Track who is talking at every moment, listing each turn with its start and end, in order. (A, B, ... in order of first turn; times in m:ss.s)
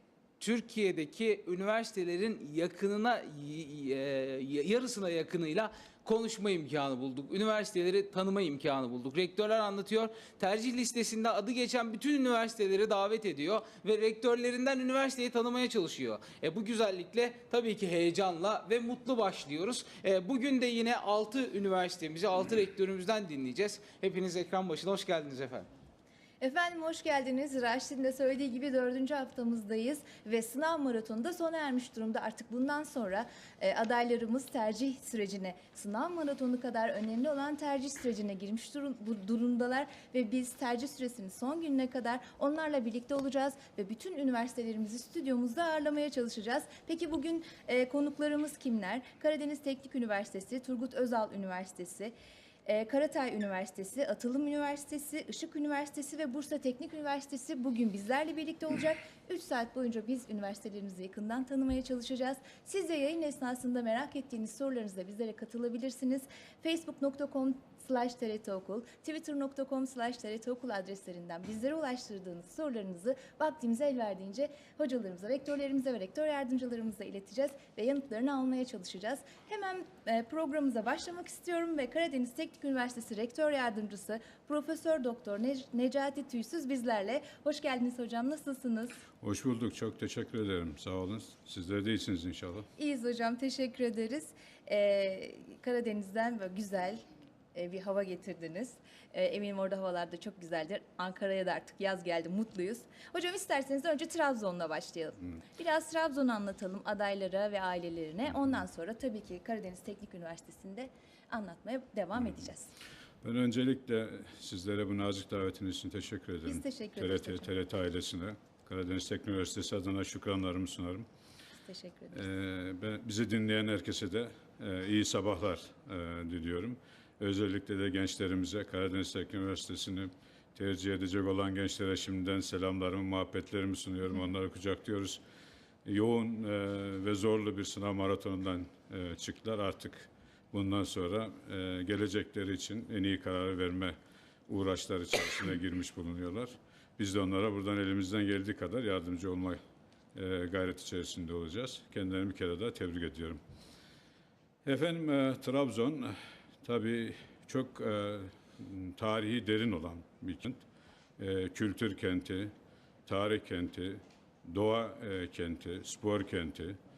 0:00.4-0:25.7 A
0:26.4-0:52.1 B
0:52.6-1:29.0 B
1:29.2-1:32.7 C
1:32.8-1:37.0 B
1:37.5-1:52.7 B
1:53.2-2:01.1 C
1:56.4-1:57.5 B
2:01.6-2:02.2 B
2:02.1-2:15.2 C
2:15.8-2:24.0 C
2:24.5-2:29.6 C
2:30.2-2:33.4 C
2:34.6-2:40.6 C
2:41.2-2:42.5 C
2:43.1-2:46.8 C